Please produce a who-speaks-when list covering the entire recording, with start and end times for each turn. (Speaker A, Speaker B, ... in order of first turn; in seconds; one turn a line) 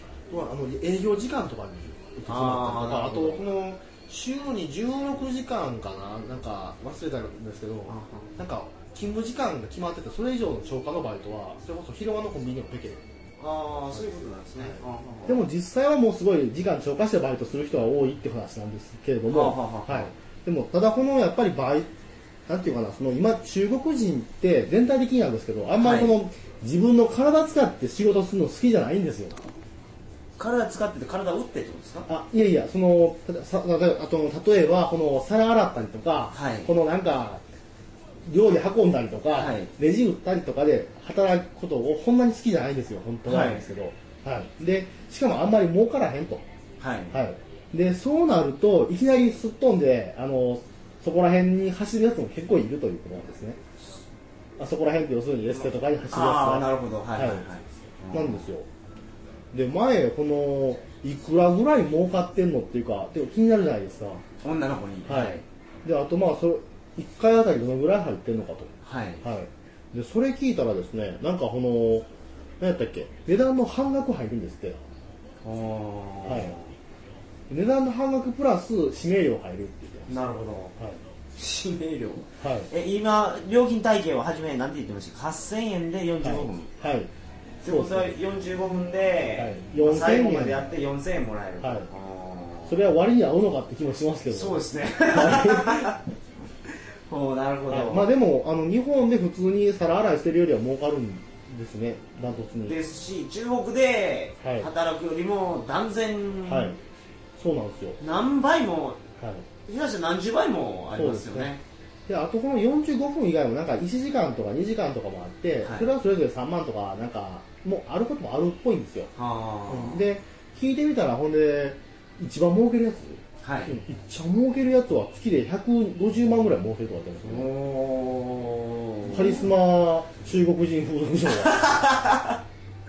Speaker A: 0.3-13.0
Speaker B: 2.3-3.4
Speaker B: 7.9-8.3
Speaker B: 13.4-15.4
Speaker A: 13.9-21.9
Speaker B: 19.3-20.1
Speaker A: 22.5-29.4
Speaker B: 25.8-26.2
Speaker B: 30.4-32.1
Speaker A: 32.1-37.4
Speaker B: 36.3-36.7
Speaker A: 38.3-46.4
Speaker B: 39.3-39.7
Speaker B: 43.2-43.7
Speaker B: 46.8-47.2
Speaker A: 47.1-53.6
Speaker A: 54.6-57.5
Speaker B: 55.5-58.5
Speaker A: 58.1-58.7
Speaker A: 59.5-64.2
Speaker B: 64.4-65.4
Speaker A: 65.0-68.7
Speaker B: 68.8-69.2
Speaker A: 69.2-72.1
Speaker A: 72.6-74.8
Speaker B: 75.4-76.7
Speaker A: 76.2-76.6
Speaker A: 77.5-80.2
Speaker B: 80.1-80.7
Speaker A: 80.8-81.0
Speaker B: 81.3-86.7
Speaker A: 82.4-82.7
Speaker A: 86.2-87.1
Speaker A: 87.6-88.2
Speaker B: 87.6-92.8
Speaker A: 89.4-90.7
Speaker A: 91.6-91.9
Speaker A: 92.7-96.0
Speaker B: 94.3-96.0
Speaker B: 97.1-98.1
Speaker A: 97.7-102.8
Speaker B: 102.7-106.8
Speaker A: 104.4-104.7
Speaker A: 106.5-106.8
Speaker A: 107.4-108.0
Speaker B: 108.0-109.0
Speaker A: 109.2-109.5
Speaker B: 109.7-111.6
Speaker A: 110.9-111.5
Speaker A: 112.1-119.1
Speaker B: 119.2-120.0
Speaker A: 119.7-127.5
Speaker B: 123.4-123.7
Speaker B: 127.2-129.5
Speaker A: 129.1-131.7
Speaker B: 131.4-132.4